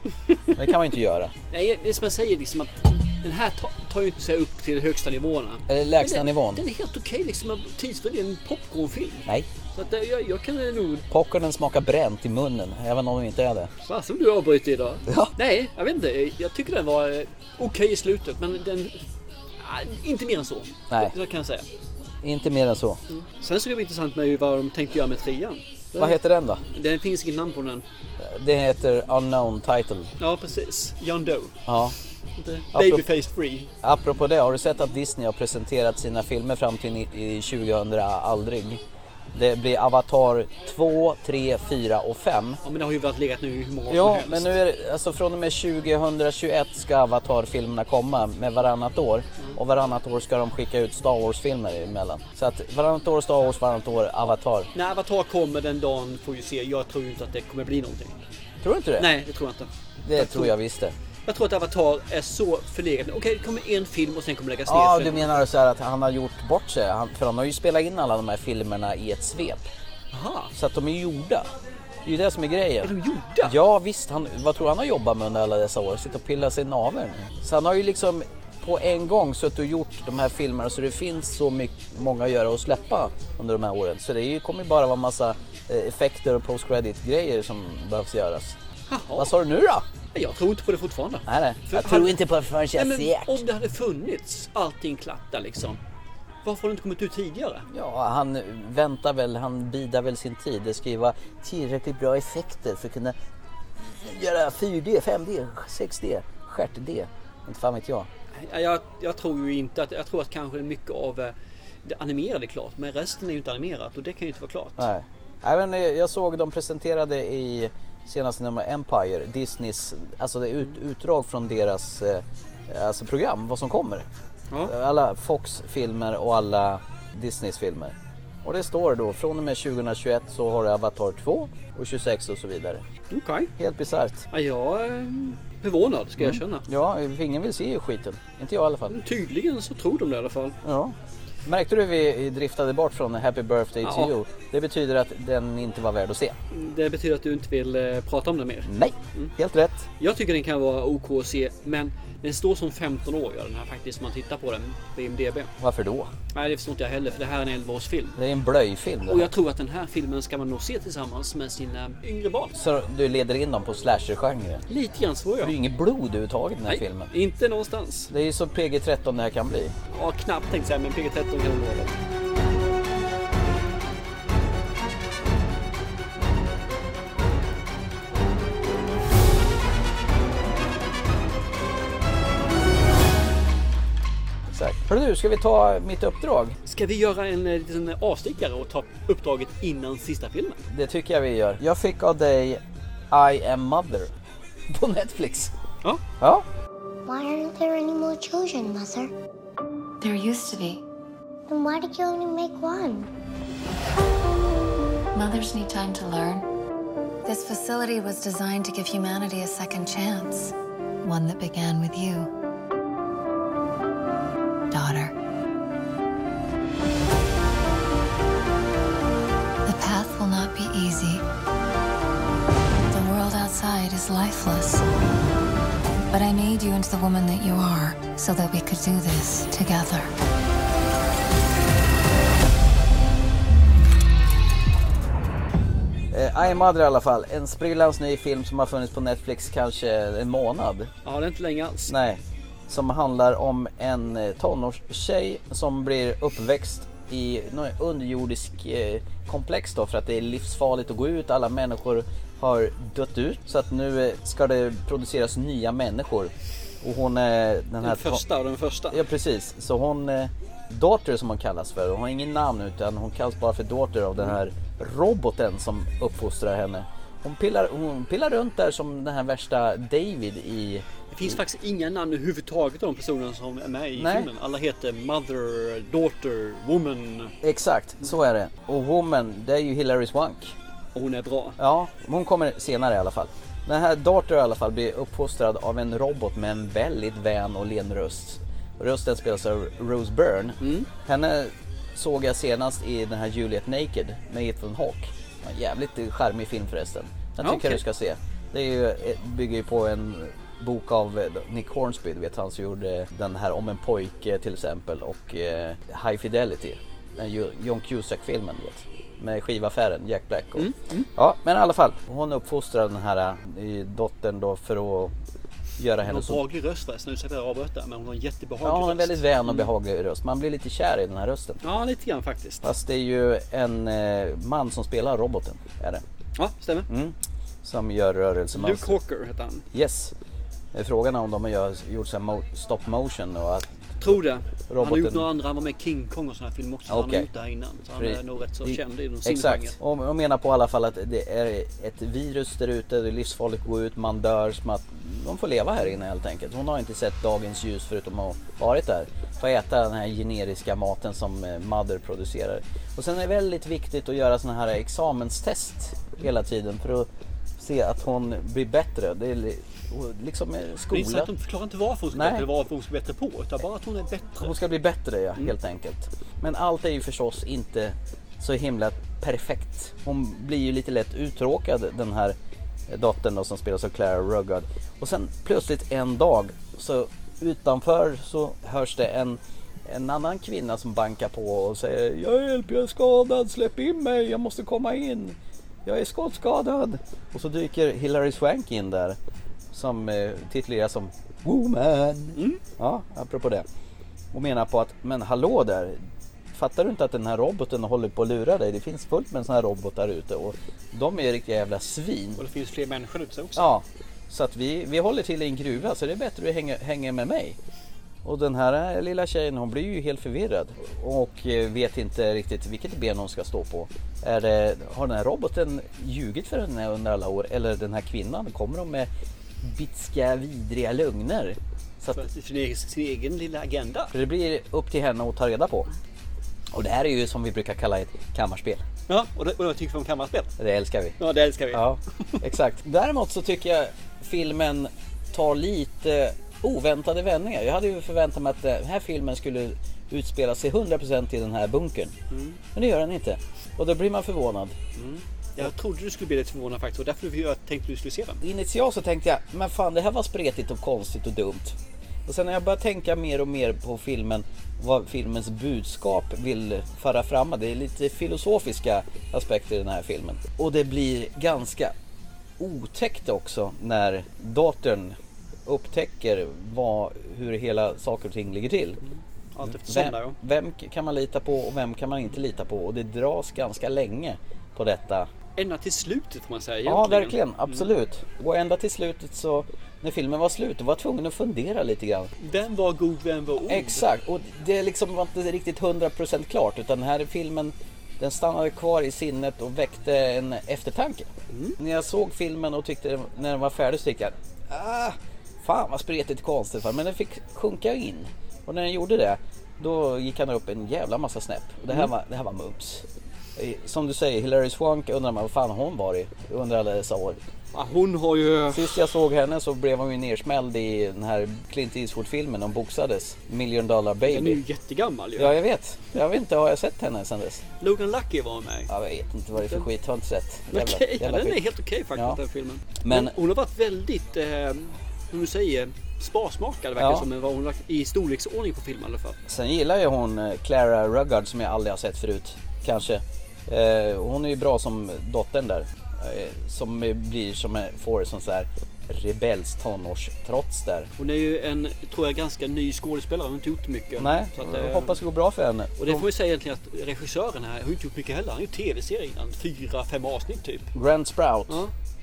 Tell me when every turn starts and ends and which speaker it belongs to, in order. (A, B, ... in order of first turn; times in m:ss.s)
0:00.5-0:01.3 A
0:01.5-0:11.0 B
0:05.7-0:06.6 A
0:11.1-0:13.7 A
0:13.8-0:19.0 B
0:15.1-0:15.3 A
0:19.6-0:21.7 B
0:22.2-0:23.0 A
0:23.1-0:27.8 B
0:26.0-0:26.6 A
0:28.2-0:30.1 A
0:30.2-0:31.6 B
0:31.7-0:31.9 A
0:32.4-0:33.7 B
0:32.7-0:33.1 A
0:33.8-0:38.8 A
0:39.3-0:42.6 A
0:42.6-0:44.6 B
0:43.9-0:54.7 A
0:54.7-0:58.2 B
0:58.6-0:59.1 A
0:59.0-1:00.5 B
1:00.0-1:00.9 A
1:01.3-1:05.4 B
1:04.7-1:09.7 A
1:10.1-1:10.5 B
1:10.5-1:11.5 A
1:12.0-1:28.6 A
1:12.8-1:13.6 B
1:28.9-1:29.3 B
1:29.1-1:29.8 A
1:30.1-1:32.2 B
1:31.3-1:33.4 A
1:32.7-1:35.8 B
1:36.4-1:37.7 B
1:37.7-1:43.1 A
1:43.8-1:48.1 A
1:48.3-1:54.9 B
1:54.8-2:04.1 A
2:04.6-2:12.8 A
2:13.1-2:13.5 B
2:13.6-2:14.2 A
2:14.3-2:16.6 B
2:16.2-2:19.0 A
2:18.9-2:20.6 B
2:20.6-2:26.4 A
2:23.8-2:24.1 B
2:26.5-2:29.3 B
2:28.6-2:29.9 A
2:30.0-2:35.5 B
2:35.6-2:36.1 A
2:36.3-2:38.2 B
2:38.2-2:39.3 A
2:39.0-2:42.6 B
2:42.5-2:44.6 A
2:44.7-2:45.5 B
2:45.4-2:47.1 A
2:46.7-2:48.1 B
2:48.1-2:49.7 A
2:49.9-2:52.0 B
3:04.5-3:06.6 A
3:06.6-3:10.6 B
3:10.7-3:14.1 A
3:14.7-3:15.5 A
3:16.2-3:16.4 A
3:17.0-3:19.1 C
3:20.0-3:20.8 D
3:21.5-3:23.1 C
3:25.1-3:26.4 D
3:27.2-3:32.3 D
3:34.7-3:35.1 D
3:39.6-3:41.2 D
3:42.9-3:44.8 D
3:46.1-3:50.1 D
3:56.1-4:00.9 A
4:01.0-4:01.9 B
4:01.9-4:18.2 A
4:17.8-4:19.0 B
4:18.9-4:31.4 A
4:31.1-4:37.3 B
4:33.9-4:34.3 A
4:37.4-4:40.5 A
4:40.9-4:41.6 B
4:41.6-5:15.1 A
4:50.6-4:50.9 B
4:57.4-4:57.8 B
5:10.6-5:11.1 B
5:15.8-5:16.4 A
5:16.0-5:19.7 B
5:18.6-5:21.6 A
5:21.6-5:22.7 B
5:22.6-5:26.0 A
5:26.4-5:26.9 B
5:26.9-5:29.0 A
5:28.5-5:29.6 B
5:29.7-5:30.1 A
5:30.7-5:34.1 A
5:34.0-5:39.8 B
5:34.7-5:35.3 A
5:36.9-5:37.3 A
5:38.0-6:01.3 A
6:00.9-6:04.5 B
6:02.1-6:02.5 A
6:04.4-6:12.4 A
6:12.9-6:29.2 A
6:29.7-6:33.6 A
6:32.4-6:32.6 B
6:34.3-6:36.0 A
6:36.5-6:42.4 A
6:42.4-6:43.7 B
6:43.6-6:47.6 A
6:48.2-6:59.1 A
6:59.6-7:02.2 A
7:02.1-7:04.1 B
7:04.1-7:05.9 A
7:06.7-7:08.8 A
7:09.1-7:10.5 B
7:10.6-7:11.2 A
7:11.2-7:12.3 B
7:11.7-7:22.1 A
7:22.3-7:22.6 B
7:22.7-7:24.8 A
7:25.0-7:28.4 B
7:28.4-7:41.9 A
7:42.6-7:49.0 A
7:49.5-7:50.4 B
7:49.7-7:55.3 A
7:55.6-7:57.8 B
7:56.8-8:02.3 A
8:02.4-8:04.0 B
8:03.7-8:23.0 A
8:11.5-8:11.8 B
8:23.6-8:27.4 A
8:27.7-8:29.0 B
8:28.7-8:34.6 A
8:34.2-8:35.6 B
8:35.4-8:37.6 A
8:37.8-8:38.9 B
8:38.9-8:42.4 A
8:40.7-8:49.4 B
8:43.0-8:43.3 A
8:47.0-8:47.3 A
8:49.5-9:01.1 A
9:01.2-9:05.2 B
9:04.2-9:06.2 A
9:06.0-9:10.9 B
9:10.9-9:11.8 A